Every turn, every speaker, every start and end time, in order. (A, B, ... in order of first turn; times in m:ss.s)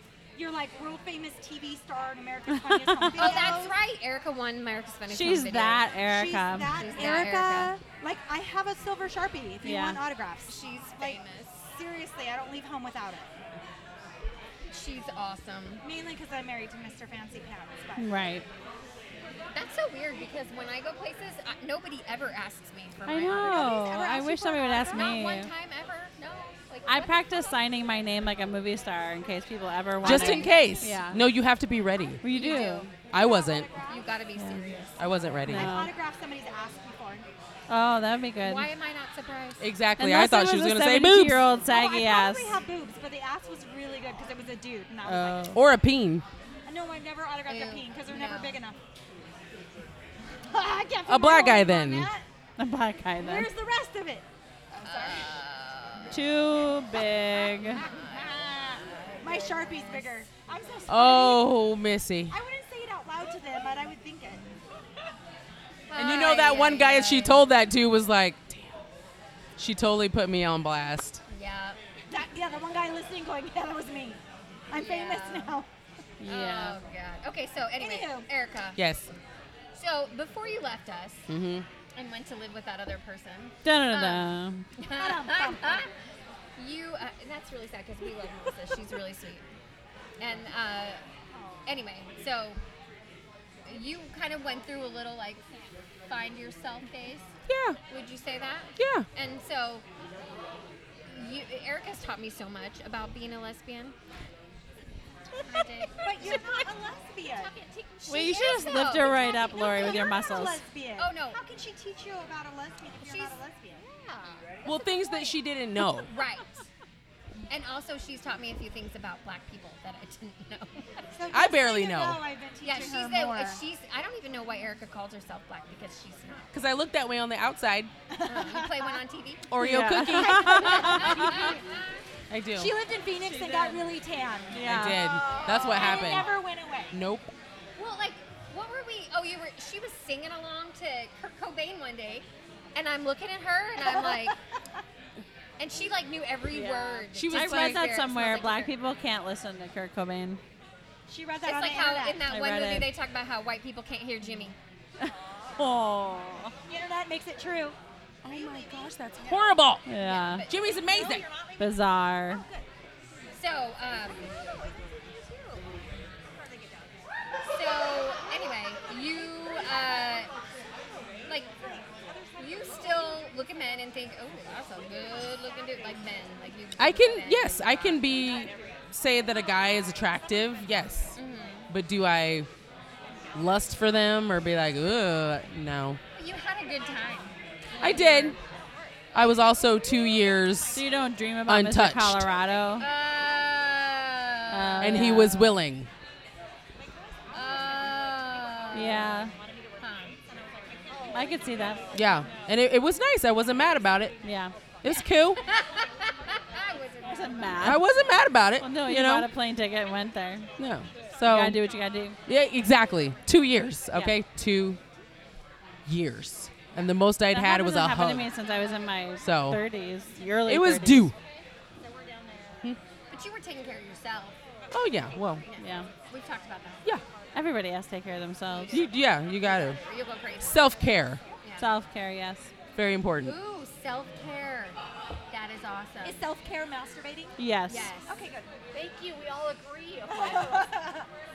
0:00.4-0:03.8 A
0:02.7-0:03.3 B
0:03.2-0:05.9 C
0:05.1-0:07.0 B
0:06.1-0:13.4 A
0:06.8-0:07.8 C
0:09.6-0:10.0 B
0:10.4-0:11.6 C
0:14.7-0:15.8 C
0:15.8-0:18.1 A
0:18.0-0:18.4 B
0:19.5-0:23.8 C
0:23.1-0:25.5 B
0:23.4-0:25.1 A
0:24.9-0:27.2 C
0:26.9-0:31.2 B
0:30.0-0:31.0 C
0:30.0-0:32.2 D
0:32.2-0:32.9 B
0:32.3-0:32.9 C
0:33.1-0:34.1 A
0:33.1-0:33.7 D
0:33.9-0:35.0 C
0:34.4-0:34.7 B
0:35.0-0:35.7 D
0:35.5-0:35.9 B
0:35.5-0:37.2 A
0:37.7-0:38.7 B
0:38.4-0:39.7 C
0:39.6-0:41.4 D
0:40.0-0:42.5 B
0:41.6-0:45.6 A
0:45.0-0:46.2 D
0:46.6-0:48.8 A
0:47.5-0:48.6 C
0:50.4-0:52.2 A
0:51.1-0:52.1 D
0:52.6-0:53.5 B
0:53.2-0:55.3 A
0:54.8-0:56.2 C
0:56.1-0:57.8 B
0:57.6-1:01.5 A
0:57.7-1:00.1 C
1:00.9-1:02.4 D
1:02.3-1:04.4 A
1:05.9-1:07.4 C
1:05.9-1:08.7 D
1:09.6-1:11.2 D
1:11.3-1:11.8 C
1:12.1-1:15.7 A
1:14.8-1:15.5 C
1:16.2-1:16.8 B
1:16.2-1:18.8 C
1:17.8-1:18.3 A
1:18.8-1:19.1 D
1:19.7-1:21.3 C
1:21.3-1:21.6 D
1:21.9-1:25.9 C
1:23.6-1:24.6 B
1:24.9-1:25.9 A
1:26.6-1:29.4 C
1:30.2-1:31.0 C
1:31.3-1:31.6 A
1:31.6-1:32.6 C
1:33.6-1:35.4 C
1:36.1-1:37.3 C
1:37.5-1:37.8 D
1:37.9-1:39.8 C
1:38.8-1:39.0 D
1:41.1-1:44.0 C
1:45.3-1:46.7 C
1:45.5-1:47.5 A
1:47.3-1:50.3 C
1:48.0-1:50.6 B
1:49.5-1:53.8 A
1:51.0-1:51.4 C
1:53.0-1:56.6 C
1:54.6-1:56.1 D
1:57.5-2:01.1 C
2:01.1-2:03.6 A
2:01.3-2:02.2 D
2:02.6-2:06.5 C
2:06.5-2:07.9 D
2:08.1-2:09.0 A
2:08.2-2:09.5 C
2:09.5-2:11.3 D
2:09.6-2:11.4 B
2:10.2-2:11.6 A
2:10.2-2:12.0 C
2:12.3-2:12.7 D
2:12.5-2:14.8 A
2:13.1-2:13.9 B
2:14.5-2:15.2 B
2:14.6-2:16.3 D
2:14.9-2:16.2 C
2:15.4-2:16.9 A
2:16.9-2:17.3 D
2:17.8-2:24.4 C
2:23.8-2:24.8 A
2:25.6-2:28.7 C
2:26.5-2:30.4 B
2:27.1-2:27.9 D
2:31.1-2:32.2 A
2:31.4-2:34.6 C
2:32.2-2:32.9 B
2:35.0-2:36.5 B
2:35.3-2:35.6 A
2:36.6-2:37.8 A
2:38.2-2:39.8 D
2:38.3-2:39.6 A
2:39.9-2:40.4 B
2:39.9-2:40.8 C
2:40.4-2:41.2 D
2:40.7-2:42.7 A
2:41.6-2:42.4 B
2:43.3-2:44.4 C
2:44.3-2:47.0 A
2:47.5-2:50.3 C
2:50.9-2:53.2 A
2:52.4-2:58.0 C
2:56.8-3:01.2 D
2:58.1-2:58.7 A
3:00.0-3:01.0 A
3:01.1-3:01.7 C
3:01.7-3:02.5 D
3:03.3-3:06.0 D
3:06.2-3:08.4 C
3:07.7-3:09.3 A
3:07.8-3:08.4 D
3:09.1-3:10.8 D
3:10.7-3:12.9 B
3:11.5-3:12.3 D
3:12.8-3:15.2 C
3:14.5-3:15.6 B
3:14.8-3:15.9 D
3:16.8-3:19.4 A
3:17.3-3:19.2 C
3:18.7-3:19.3 B
3:19.8-3:20.2 C
3:20.4-3:22.1 A
3:21.1-3:21.9 B
3:21.9-3:24.2 D
3:24.2-3:24.5 B
3:24.8-3:25.4 D
3:24.9-3:27.8 C
3:27.0-3:27.9 B
3:27.6-3:29.3 D
3:28.6-3:30.5 B
3:30.6-3:31.6 D
3:31.2-3:32.2 B
3:32.2-3:34.8 D
3:35.9-3:38.3 D
3:37.3-3:41.1 B
3:39.2-3:39.6 D
3:40.5-3:41.1 D
3:42.1-3:42.4 E
3:43.1-3:44.4 C
3:44.7-3:45.4 D
3:45.5-3:46.9 C
3:45.6-3:45.9 B
3:47.3-3:48.8 B
3:48.7-3:49.8 D
3:49.7-3:50.7 C
3:50.4-3:51.2 D
3:51.4-3:51.7 C
3:51.6-3:52.5 B
3:52.7-3:53.4 D
3:53.2-3:54.8 C
3:55.3-3:56.2 C
3:56.0-3:57.4 A
3:57.4-3:57.9 B
3:57.7-3:58.1 C
3:58.0-3:58.5 A
3:58.7-4:00.7 E
4:00.1-4:01.1 A